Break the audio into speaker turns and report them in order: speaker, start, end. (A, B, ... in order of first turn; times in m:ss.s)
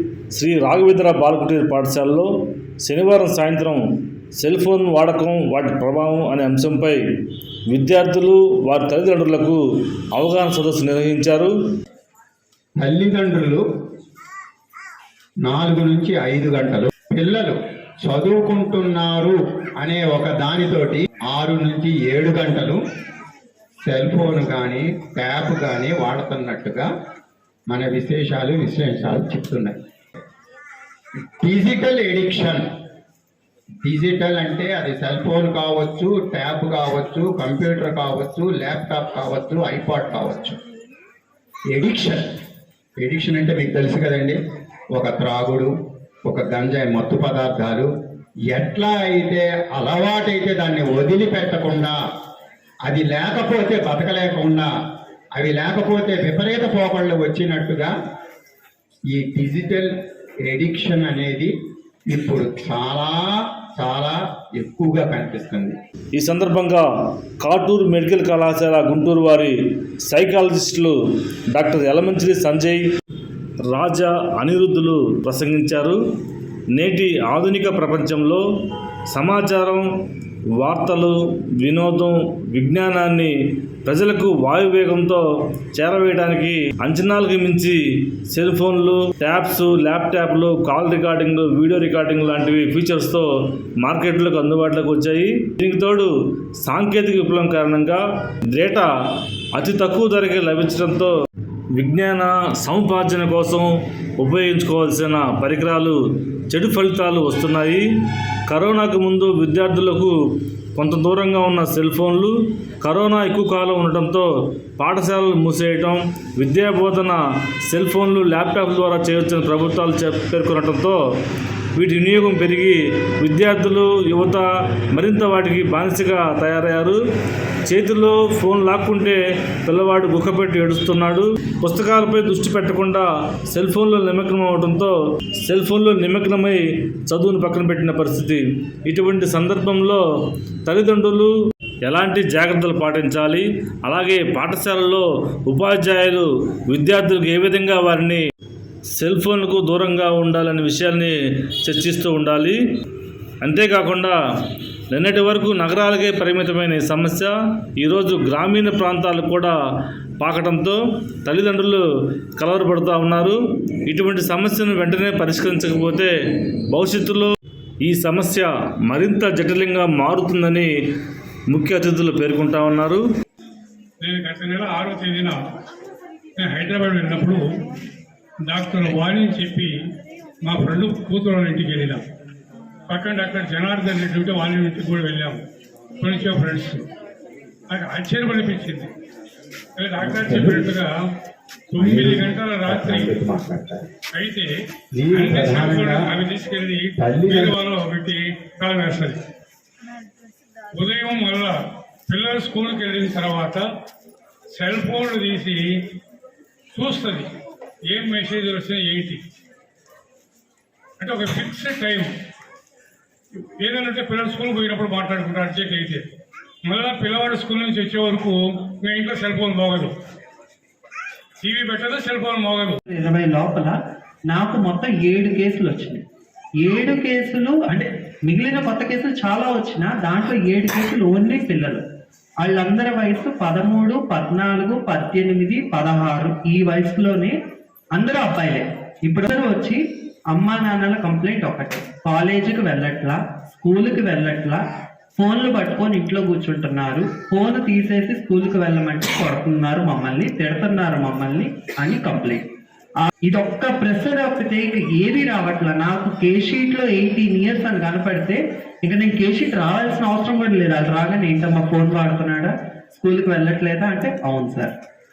0:00.3-0:02.3 A
0:02.8-0:03.8 A
0:04.4-0:07.0 A
0:07.7-0:09.6 A
0:10.1-0:11.5 A
0:12.8-0:13.6 B
0:15.4-0:22.8 B
0:23.8-0:26.9 B
0:27.7-0:29.8 B
0:31.4-0:32.6 B
0:33.8-0:40.6 B
0:41.7-0:42.3 B
0:43.0-0:44.4 B
0:44.9-0:45.7 B
0:46.2-0:47.9 B
0:48.5-0:52.0 B
0:52.8-0:54.7 B
0:55.3-0:57.9 B
0:59.1-0:59.9 B
1:00.4-1:01.5 B
1:02.1-1:05.7 B
1:06.2-1:06.8 A
1:07.4-1:11.0 A
1:11.5-1:12.8 A
1:13.7-1:16.0 A
1:16.7-1:18.4 A
1:19.1-1:19.9 A
1:20.6-1:23.3 A
1:23.8-1:33.3 A
1:33.8-1:38.9 A
1:39.5-1:41.1 A
1:41.8-1:46.0 A
1:46.5-1:47.9 A
1:48.5-1:50.1 A
1:50.8-2:01.0 A
2:01.7-2:07.0 A
2:07.6-2:20.0 A
2:20.6-2:21.3 A
2:21.8-2:28.2 A
2:28.9-2:32.6 A
2:33.4-2:34.2 A
2:34.9-2:39.6 A
2:40.2-2:41.8 A
2:42.4-2:46.1 A
2:46.7-2:50.7 A
2:51.5-2:53.0 A
2:54.0-2:55.4 C
2:56.4-2:57.4 C
2:58.5-2:59.7 C
3:00.4-3:02.0 C
3:02.9-3:05.4 C
3:06.0-3:06.8 C
3:07.7-3:08.9 C
3:09.8-3:11.0 C
3:10.0-3:10.6 B
3:11.7-3:13.1 C
3:11.8-3:13.9 B
3:14.1-3:14.5 C
3:14.9-3:16.1 B
3:15.1-3:19.2 C
3:17.0-3:17.5 B
3:20.7-3:23.6 C
3:24.5-3:25.8 C
3:26.7-3:27.3 C
3:27.9-3:29.2 C
3:31.0-3:32.1 C
3:33.6-3:36.1 C
3:36.6-3:40.0 C
3:41.4-3:42.8 C
3:42.9-3:43.7 D
3:44.3-3:46.0 D
3:46.6-3:51.8 D
3:52.4-3:57.3 D
3:57.9-3:59.8 D
4:00.3-4:04.6 D
4:05.2-4:12.4 D
4:13.0-4:24.7 D